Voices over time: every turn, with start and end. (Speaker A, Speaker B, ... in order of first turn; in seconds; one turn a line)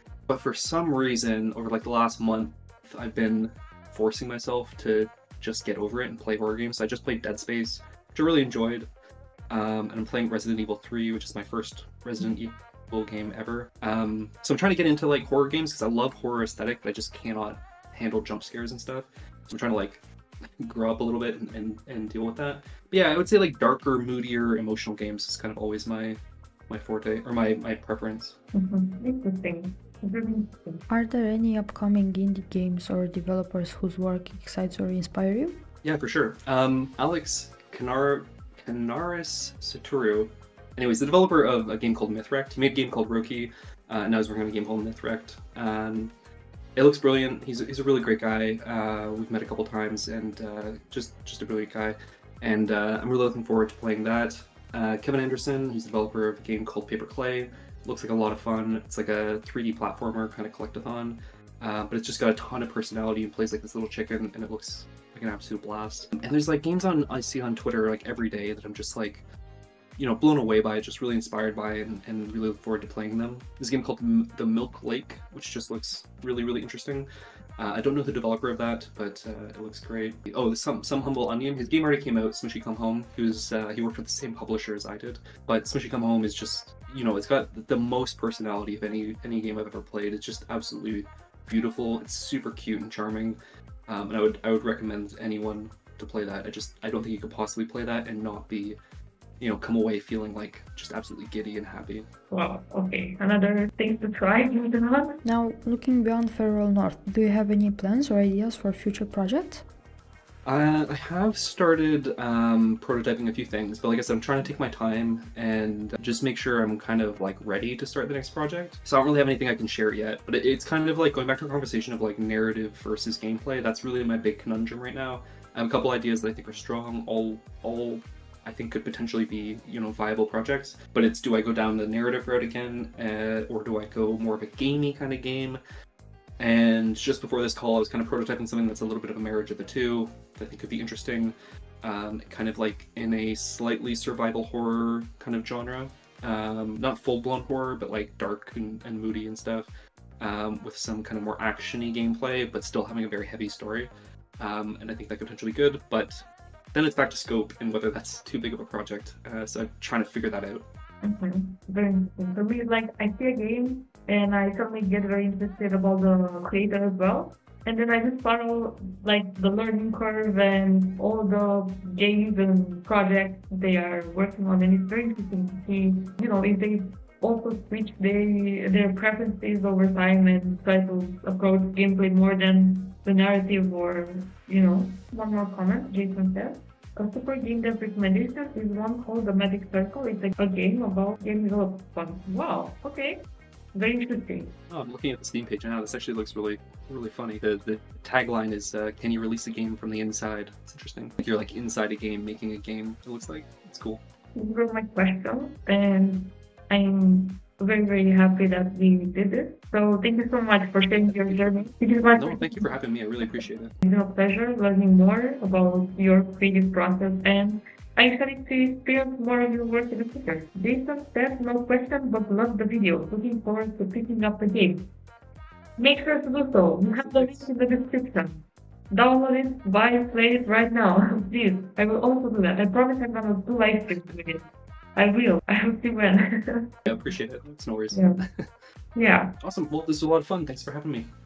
Speaker A: 0.3-8.9
Speaker A: 9.5-20.0
Speaker A: 20.6-28.4
Speaker B: 28.5-30.8
Speaker C: 30.9-35.6
Speaker A: 35.8-46.1
Speaker A: 46.8-69.2
Speaker A: 70.0-77.1
Speaker A: 77.6-98.8
Speaker A: 99.4-102.1
Speaker B: 102.3-105.2
Speaker C: 105.2-109.7
Speaker A: 110.5-135.6
Speaker A: 136.4-160.6
Speaker B: 161.0-194.5
Speaker A: 194.7-204.0
Speaker B: 204.3-212.7
Speaker A: 211.0-213.7
Speaker B: 213.3-224.9
Speaker B: 225.8-237.1
Speaker A: 226.9-227.5
Speaker A: 233.9-234.2
Speaker A: 236.8-238.6
Speaker B: 237.9-238.2
Speaker B: 238.9-239.3
Speaker A: 239.4-241.1